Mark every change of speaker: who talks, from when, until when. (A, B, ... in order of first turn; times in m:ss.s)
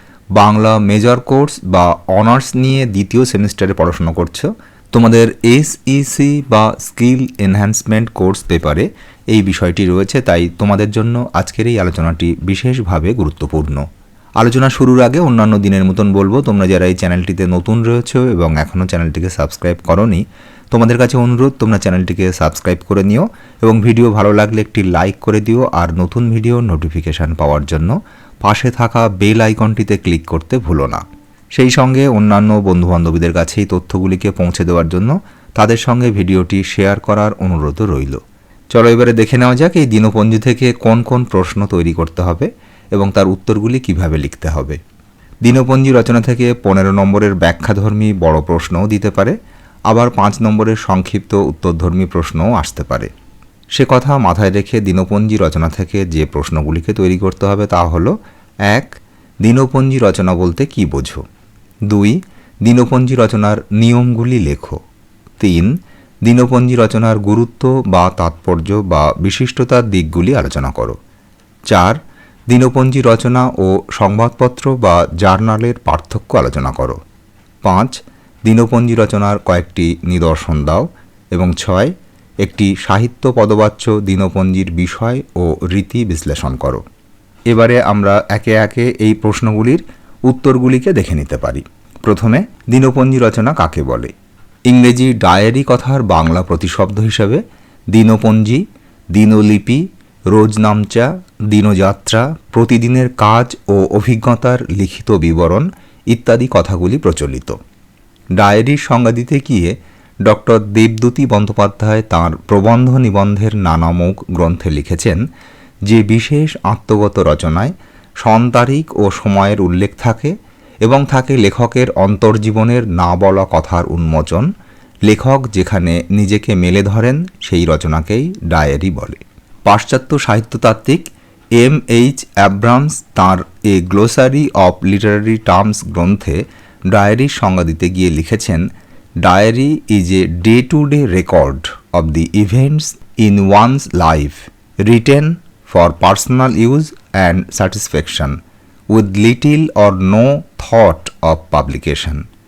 0:00.4-0:13.8 A
0:14.4-0:31.0 A
0:31.6-0:38.2 A
0:38.7-0:44.8 A
0:45.4-0:49.4 A
0:49.9-0:53.1 A
0:53.7-0:58.1 A
0:58.7-1:01.2 A
1:01.9-1:04.8 A
1:05.4-1:11.0 A
1:11.7-1:12.0 A
1:12.5-1:17.0 A
1:17.6-1:18.0 A
1:18.5-1:26.8 A
1:27.5-1:34.1 A
1:34.7-1:38.6 A
1:39.1-1:47.6 A
1:48.4-1:55.2 A
1:55.9-2:04.5 A
2:05.1-2:11.0 A
2:11.6-2:18.7 A
2:19.2-2:28.4 A
2:28.9-2:32.2 A